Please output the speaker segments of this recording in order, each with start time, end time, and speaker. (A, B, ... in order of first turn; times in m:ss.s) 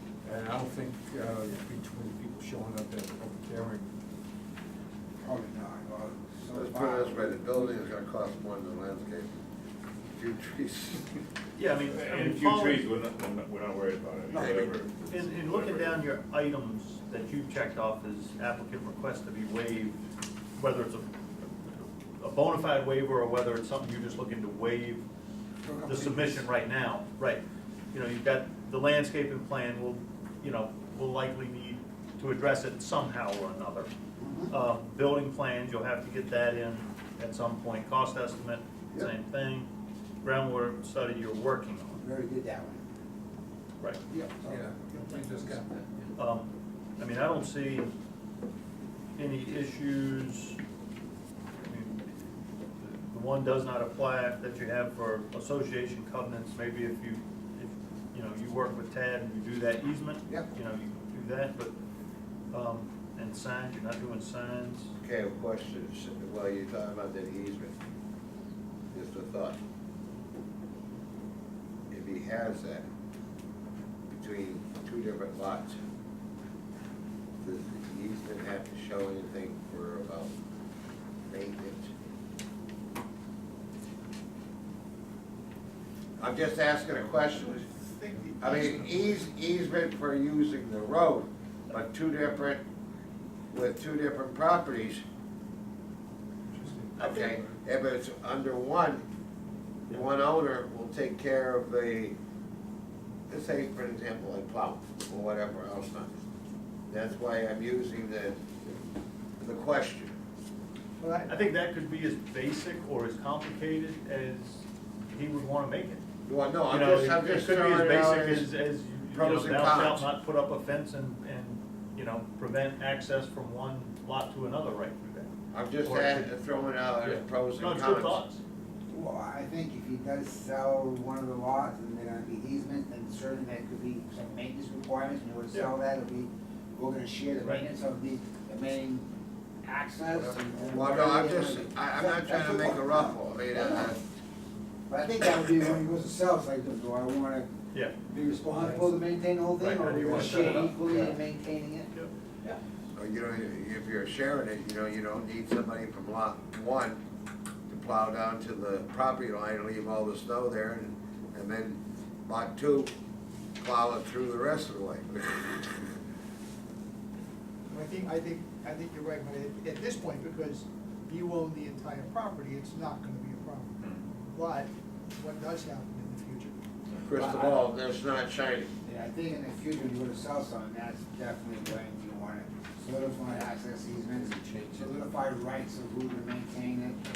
0:00.2-0:03.9 A
0:05.2-0:07.8 B
0:06.5-0:09.3 C
0:10.1-0:11.0 C
0:11.6-0:12.9 D
0:11.8-0:16.1 E
0:14.3-0:14.8 B
0:14.3-0:14.7 C
0:15.1-0:20.0 D
0:20.6-0:25.0 D
0:25.6-0:26.4 B
0:25.8-0:27.4 D
0:27.9-0:33.9 D
0:34.2-0:34.5 B
0:34.5-0:39.7 D
0:40.2-0:42.0 D
0:42.0-0:42.8 B
0:44.1-0:45.5 B
0:44.5-0:46.1 A
0:46.2-0:47.9 D
0:49.2-0:50.6 D
0:51.6-0:52.0 D
0:52.8-1:01.7 D
1:02.5-1:04.9 D
1:05.0-1:07.7 C
1:08.9-1:09.6 C
1:11.9-1:12.8 C
1:14.2-1:15.8 C
1:17.4-1:20.3 C
1:21.2-1:21.9 C
1:26.2-1:27.7 C
1:27.2-1:29.2 F
1:28.4-1:32.6 C
1:33.5-1:35.0 C
1:37.0-1:37.4 D
1:37.0-1:39.0 C
1:39.9-1:42.1 C
1:43.3-1:46.2 C
1:46.9-1:48.4 C
1:49.4-1:50.1 C
1:51.0-1:51.5 F
1:51.3-1:56.0 D
1:56.2-1:58.5 C
1:56.7-2:06.3 D
1:59.1-2:00.1 C
2:05.5-2:08.2 C
2:07.5-2:08.4 D
2:08.9-2:19.1 B
2:19.6-2:24.0 B
2:20.1-2:24.0 C
2:24.9-2:27.5 B
2:28.0-2:31.9 B
2:28.6-2:28.8 A
2:29.6-2:30.7 D
2:30.0-2:31.1 A
2:32.9-2:37.0 C
2:37.7-2:42.9 C
2:43.6-2:46.0 C
2:47.7-2:56.6 F
2:53.8-2:54.1 E
2:57.0-2:57.3 E
2:57.0-2:58.7 C
2:57.2-2:57.5 F
2:58.8-3:07.0 B
3:03.3-3:05.0 A